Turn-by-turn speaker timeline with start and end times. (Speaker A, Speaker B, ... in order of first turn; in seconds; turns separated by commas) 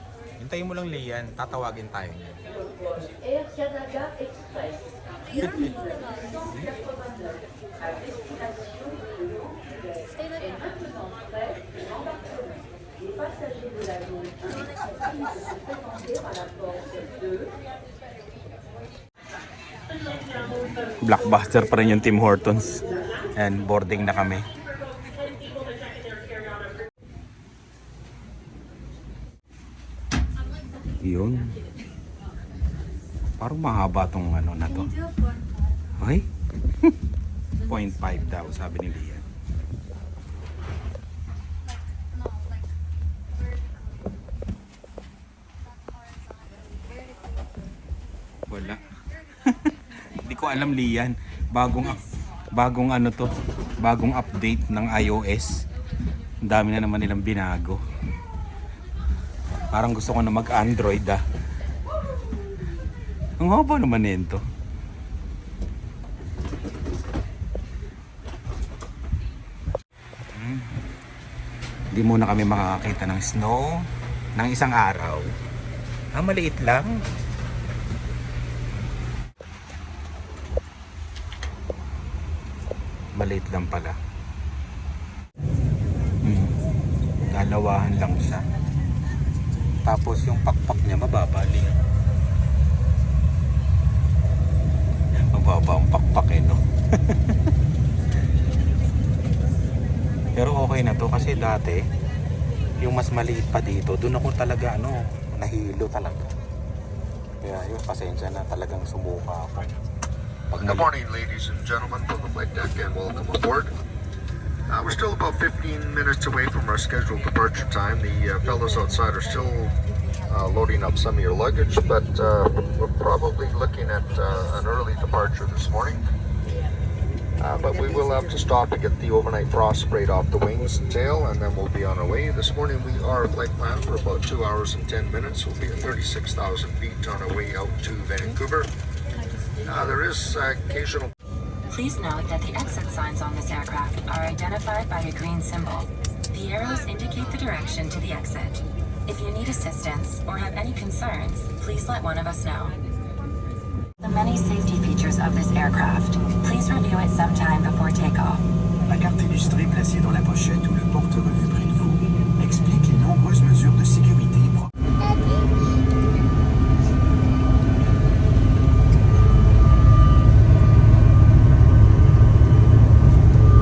Speaker A: 0.4-2.4, Speaker B: 5.2-6.5, Speaker A: 5.4-5.7, Speaker A: 6.5-6.7, Speaker B: 10.1-10.7, Speaker B: 14.4-15.5, Speaker A: 21.0-22.8, Speaker A: 23.3-24.5, Speaker A: 31.0-31.5, Speaker A: 33.4-34.9, Speaker B: 34.6-36.0, Speaker A: 36.0-36.3, Speaker A: 37.6-39.2, Speaker B: 41.6-42.7, Speaker B: 43.3-44.2, Speaker B: 45.6-47.7, Speaker A: 48.5-55.6, Speaker A: 56.4-57.8, Speaker A: 59.7-61.2, Speaker A: 63.4-64.4, Speaker A: 70.3-70.7, Speaker A: 71.9-73.8, Speaker A: 74.4-75.2, Speaker A: 76.1-77.0, Speaker A: 83.2-84.0, Speaker A: 86.2-86.5, Speaker A: 87.3-88.5, Speaker A: 89.8-91.8, Speaker A: 95.3-97.3, Speaker A: 100.3-101.8, Speaker A: 102.8-106.3, Speaker A: 107.4-109.7, Speaker A: 110.5-110.9, Speaker C: 110.6-113.7, Speaker C: 114.7-119.7, Speaker C: 120.2-126.0, Speaker C: 127.4-138.7, Speaker C: 139.6-141.1, Speaker D: 141.7-152.8, Speaker D: 154.0-158.4, Speaker E: 158.8-164.7, Speaker B: 165.0-165.6